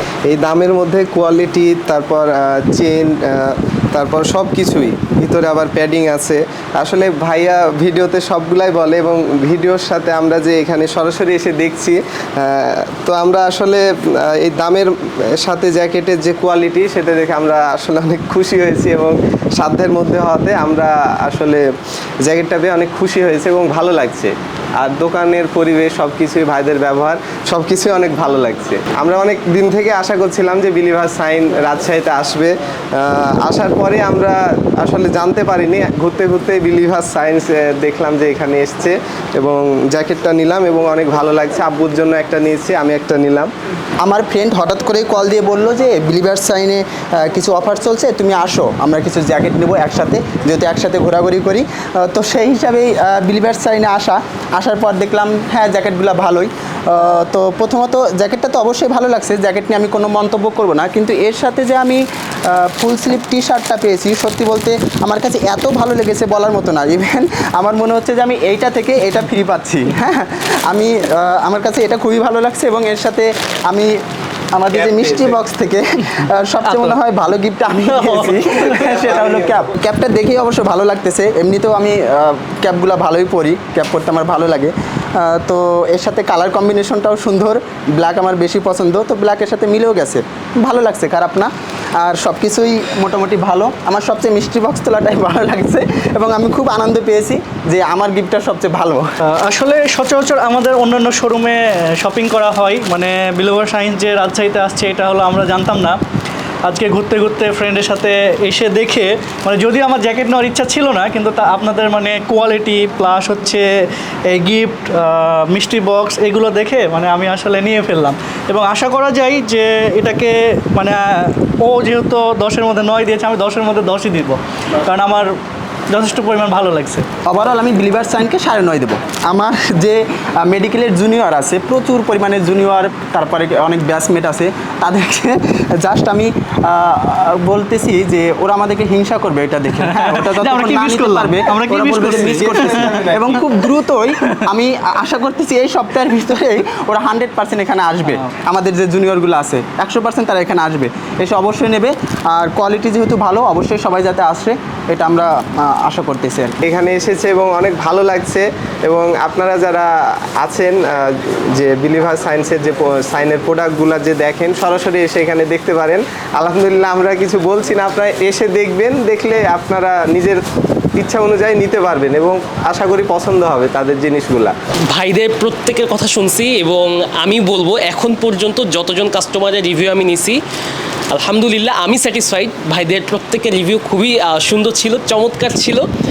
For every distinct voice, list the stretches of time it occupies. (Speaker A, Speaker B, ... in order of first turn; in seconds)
Speaker A: 0.3-21.6, 22.2-43.5, 74.7-75.4, 78.5-79.6, 142.0-143.5, 156.6-170.4, 171.0-174.5
Speaker B: 44.0-74.0, 74.5-99.0, 127.3-156.5
Speaker C: 77.8-78.3, 99.2-106.0, 106.7-125.3, 125.9-127.0, 139.8-143.2
Speaker D: 174.9-180.4, 181.1-185.8